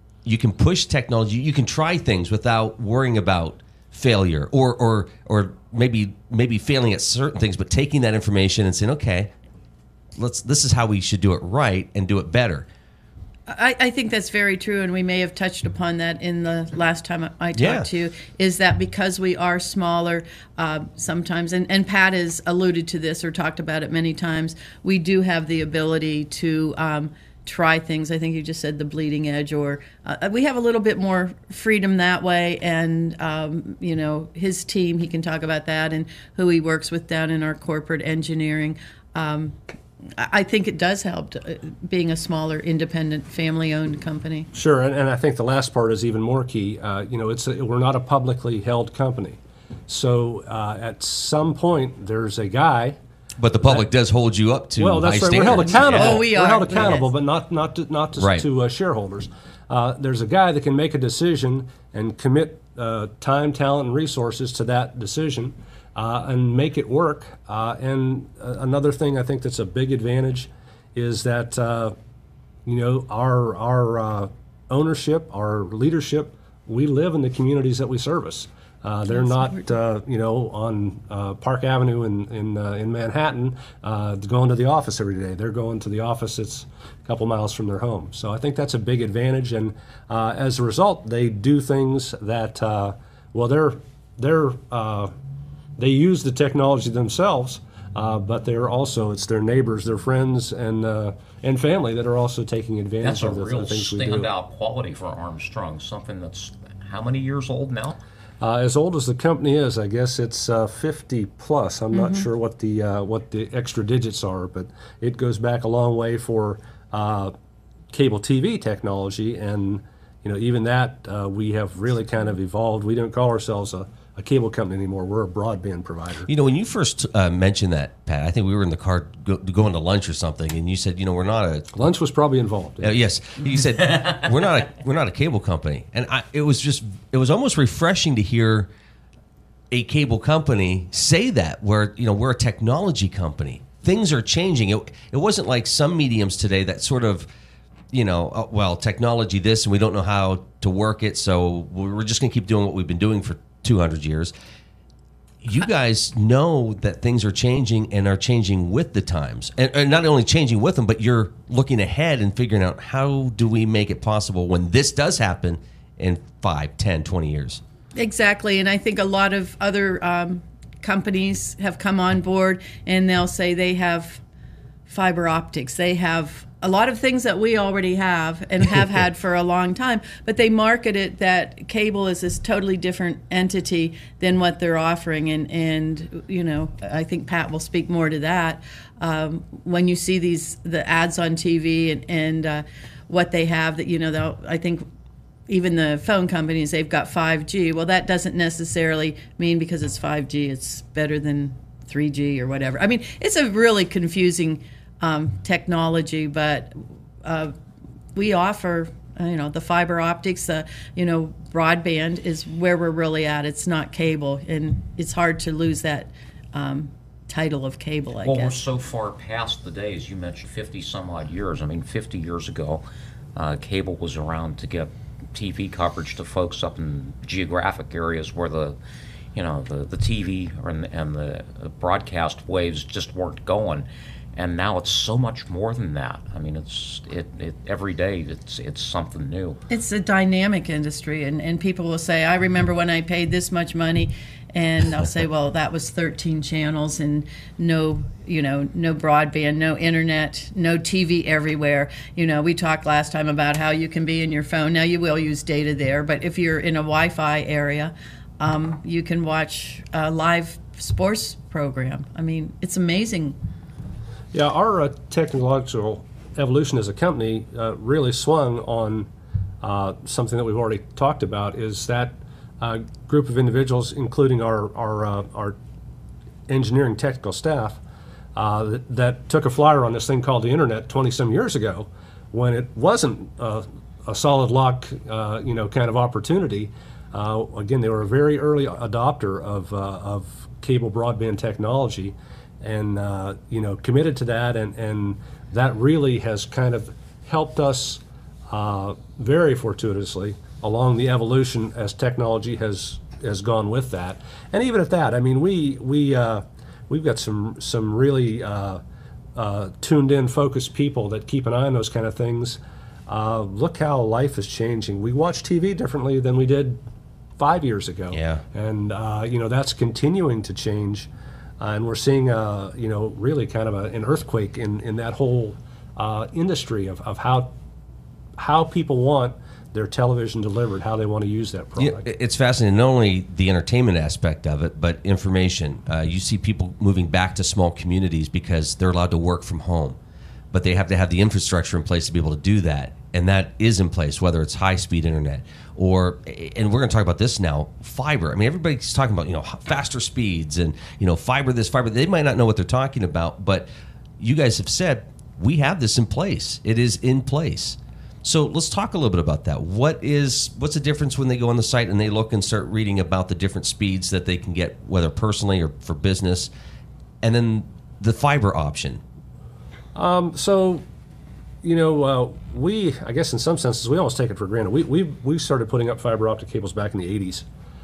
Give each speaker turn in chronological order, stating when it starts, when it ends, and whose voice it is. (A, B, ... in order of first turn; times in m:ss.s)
0:00.2-0:09.3 A
0:10.2-0:12.7 A
0:13.5-0:39.6 B
0:17.6-0:17.9 A
0:40.2-0:44.5 B
0:44.5-0:53.0 C
0:53.4-0:56.3 A
0:54.8-1:12.0 C
0:55.7-0:57.1 B
0:58.2-0:58.4 A
1:12.7-1:35.1 C
1:35.8-1:44.3 C
1:43.0-1:48.0 D
1:48.4-1:57.3 C
1:51.9-1:52.3 B
1:57.9-2:06.3 C
2:06.3-2:11.7 A
2:11.7-2:13.0 C
2:12.8-2:18.7 A
2:19.7-2:27.3 A
2:27.9-2:34.3 A
2:35.4-2:47.6 A
2:48.0-2:54.2 B
2:54.9-3:14.8 B
3:15.5-3:27.5 B
3:28.2-3:38.6 B
3:38.2-3:42.8 D
3:43.4-3:48.8 D
3:49.3-3:59.6 D
3:59.7-4:23.4 B
4:24.3-4:29.1 C
4:29.6-4:35.6 C
4:36.5-4:37.8 C
4:38.4-5:08.8 C
5:09.4-5:16.8 C
5:17.4-5:21.1 C
5:18.1-5:18.4 A
5:21.6-5:27.5 C
5:28.4-5:32.1 C
5:31.8-5:40.0 A
5:40.5-5:53.7 A
5:54.2-6:06.5 A
6:07.2-6:09.0 A
6:10.0-6:10.8 C
6:11.6-6:17.5 C